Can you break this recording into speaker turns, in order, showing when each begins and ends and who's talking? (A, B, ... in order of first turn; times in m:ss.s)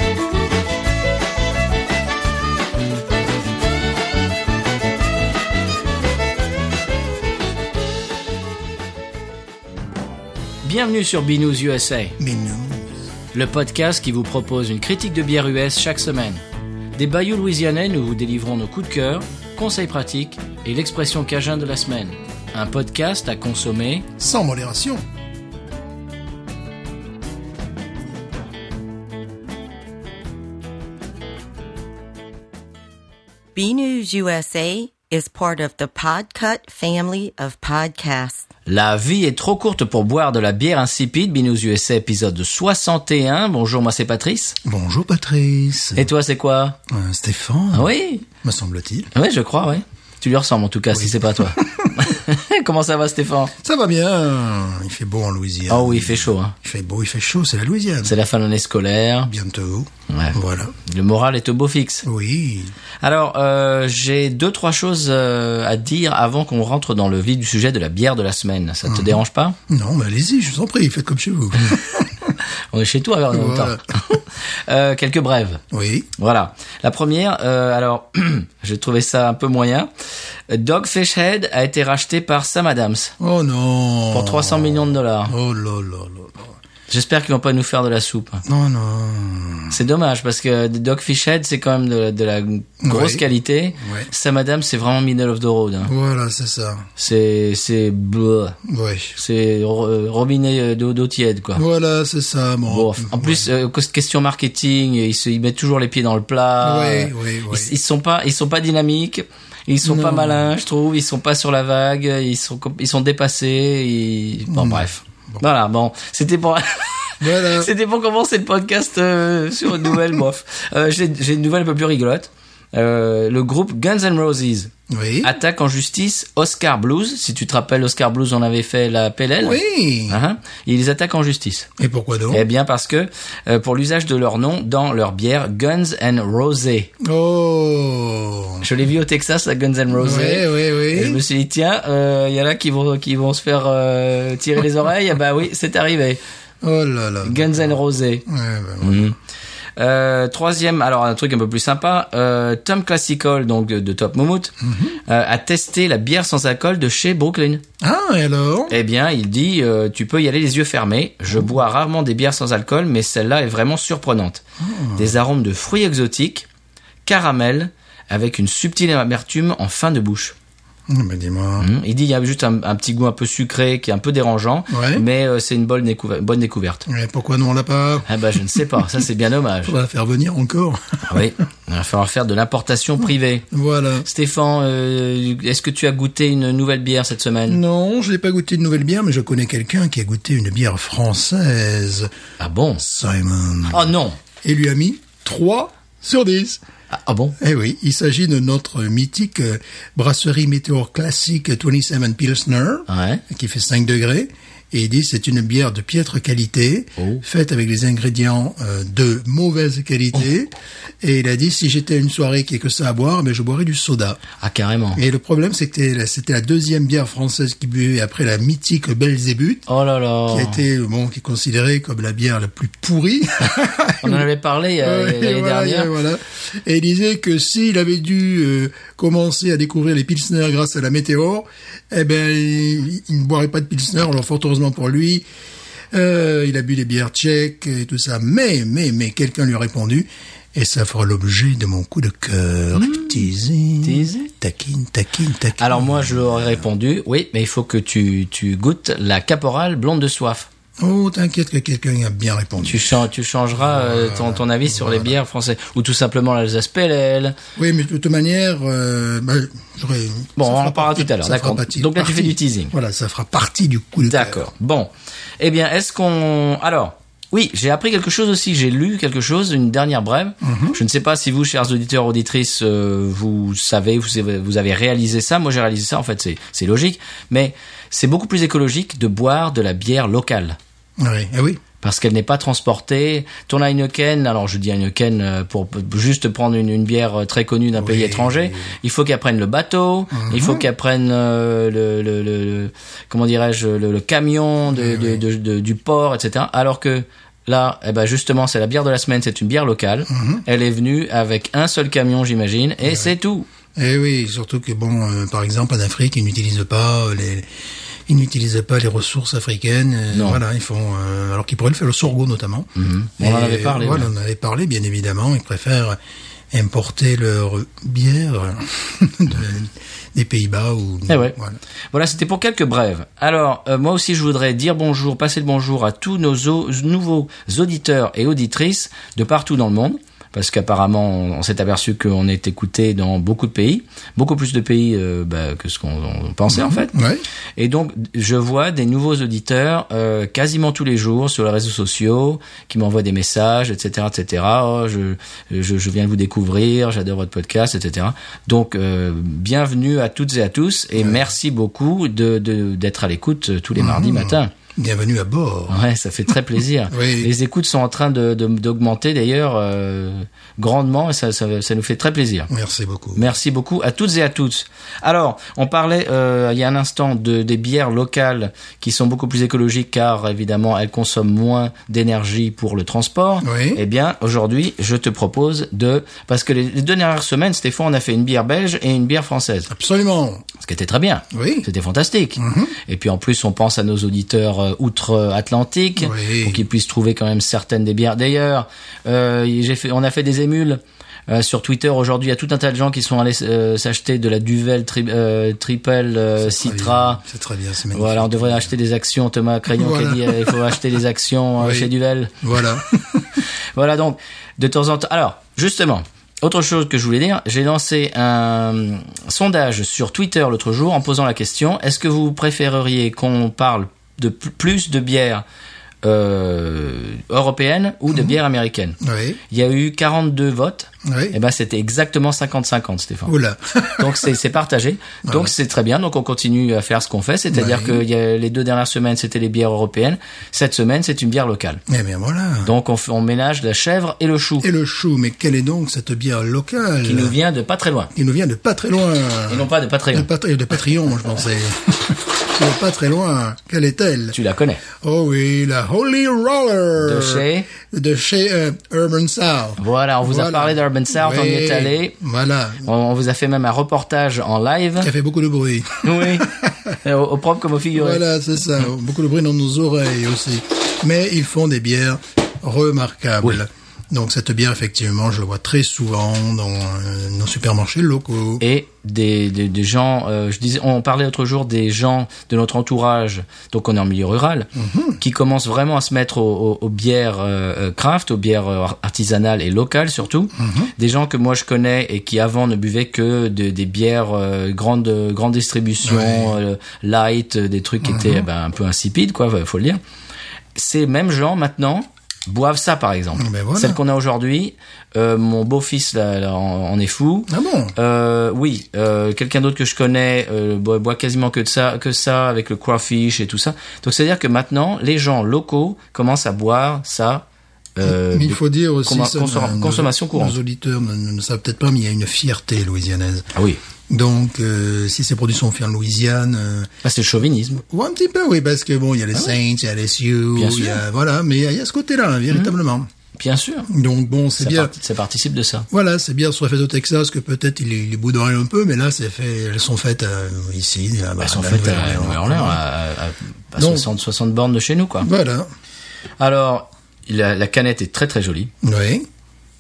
0:10.6-0:12.2 A
0:12.2-0:12.9 B
0:13.3-0:16.4 A
0:17.0-0:24.1 A
0:24.2-0:25.0 B
0:33.6-0:38.4 C
0:38.7-0:44.6 A
0:44.6-0:46.1 B
0:46.0-0:46.8 A
0:46.9-0:47.9 B
0:47.7-0:48.3 A
0:48.4-0:49.1 B
0:49.1-0:53.5 A
0:50.9-0:52.2 B
0:53.6-0:58.2 B
0:55.7-0:56.6 A
0:58.0-0:59.3 A
0:59.3-1:00.8 B
1:00.1-1:02.0 A
1:02.0-1:02.7 B
1:03.0-1:09.6 A
1:08.9-1:12.3 B
1:12.7-1:15.6 A
1:13.3-1:13.8 B
1:15.7-1:16.1 B
1:16.2-1:19.9 A
1:20.5-1:23.1 A
1:23.2-1:26.6 B
1:24.1-1:25.3 A
1:26.9-1:28.4 A
1:28.4-1:29.8 B
1:29.7-1:35.9 A
1:32.8-1:33.2 B
1:33.8-1:34.1 B
1:35.8-1:36.9 B
1:37.0-1:38.6 A
1:38.6-1:39.2 B
1:39.2-1:41.6 A
1:41.6-1:43.5 B
1:42.7-2:04.7 A
1:46.6-1:47.7 B
1:49.8-1:50.5 B
1:54.5-1:55.4 B
1:57.2-1:57.7 B
2:04.9-2:05.4 B
2:05.2-2:11.7 A
2:09.4-2:10.2 B
2:11.8-2:12.4 B
2:12.3-2:16.9 A
2:17.0-2:18.6 B
2:18.6-2:26.2 A
2:19.9-2:21.2 B
2:26.6-2:29.2 B
2:27.2-2:28.2 A
2:28.8-2:29.2 A
2:29.8-2:34.5 A
2:34.6-2:35.0 B
2:35.1-2:37.6 A
2:37.8-2:38.8 B
2:38.7-2:44.4 A
2:44.6-2:45.2 B
2:45.0-2:46.5 A
2:47.1-2:50.4 A
2:50.9-2:51.7 B
2:51.6-2:56.8 A
2:54.7-2:55.0 B
2:56.9-2:59.0 B
2:58.1-2:59.8 A
2:59.6-3:01.3 B
3:01.1-3:03.5 A
3:03.5-3:04.1 B
3:04.0-3:07.6 A
3:07.5-3:12.1 B
3:12.4-3:12.8 A
3:12.8-3:16.6 B
3:13.7-3:14.2 A
3:16.9-3:17.4 A
3:17.4-3:34.2 B
3:22.9-3:23.2 A
3:27.0-3:27.2 A
3:34.4-3:35.0 A
3:35.0-3:39.7 B
3:39.7-3:40.6 A
3:40.3-3:44.3 B
3:44.0-3:45.9 A
3:44.8-3:55.3 B
3:55.9-4:06.6 B
4:02.8-4:03.2 A
4:03.8-4:04.3 A
4:05.6-4:10.5 A
4:10.8-4:12.9 B
4:12.6-4:17.4 A
4:13.5-4:15.2 B
4:17.6-4:24.5 B
4:20.4-4:22.7 A
4:24.1-4:40.6 A
4:30.4-4:30.8 B
4:41.0-4:41.6 B
4:41.8-5:03.5 A
4:47.8-4:48.8 B
4:50.1-4:50.7 B
4:54.7-4:55.2 B
5:00.1-5:00.5 B
5:02.8-5:03.1 B
5:03.8-5:07.5 B
5:08.1-5:16.0 B
5:10.1-5:10.4 A
5:12.8-5:14.1 A
5:16.5-5:21.6 B
5:21.1-5:21.4 A
5:21.9-5:36.9 A
5:36.5-5:37.2 B
5:37.6-5:54.5 A
5:51.0-5:51.2 B
5:53.8-5:55.8 B
5:55.7-6:02.5 A
5:56.9-5:57.3 B
6:02.5-6:03.3 B
6:03.2-6:19.7 A
6:13.4-6:13.8 B
6:19.7-6:20.4 B
6:20.6-6:37.2 A
6:21.3-6:21.7 B
6:22.4-6:22.8 B
6:26.0-6:26.6 B
6:36.4-6:38.7 B
6:37.9-6:42.3 A
6:39.8-6:40.8 B
6:41.6-6:41.9 B
6:42.4-6:43.4 B
6:43.8-6:55.4 A
6:56.0-6:59.0 A
6:59.0-6:59.4 B
6:59.5-7:03.3 A
7:01.0-7:01.4 B
7:03.3-7:04.3 B
7:04.0-7:11.8 A
7:05.3-7:05.5 B
7:07.5-7:08.0 B
7:11.9-7:12.7 B
7:12.6-7:14.7 A
7:14.6-7:17.4 B
7:17.0-7:18.1 A
7:18.1-7:24.4 B
7:19.5-7:20.3 A
7:24.3-7:24.8 A
7:24.9-7:32.9 B
7:27.0-7:27.7 A
7:29.8-7:32.2 A
7:32.8-7:35.1 A
7:35.0-7:37.0 B
7:36.0-7:36.5 A
7:37.0-7:38.2 A
7:38.0-7:48.6 B
7:48.6-8:10.0 A
7:54.8-7:55.2 B
8:00.6-8:00.9 B
8:06.0-8:06.6 B
8:08.0-8:08.5 B
8:10.8-8:30.6 A
8:13.4-8:14.0 B
8:17.5-8:17.9 B
8:28.0-8:33.5 B
8:33.6-8:33.8 A
8:34.1-8:36.9 B
8:37.0-8:37.8 A
8:37.8-8:43.1 B
8:40.6-8:41.0 A
8:43.4-8:43.9 A
8:43.9-8:45.0 B
8:44.6-8:45.9 A
8:45.9-8:52.8 B
8:51.4-8:55.3 A
8:53.8-8:54.1 B
8:55.2-8:55.7 B
8:56.4-8:58.7 A
8:58.8-8:59.3 B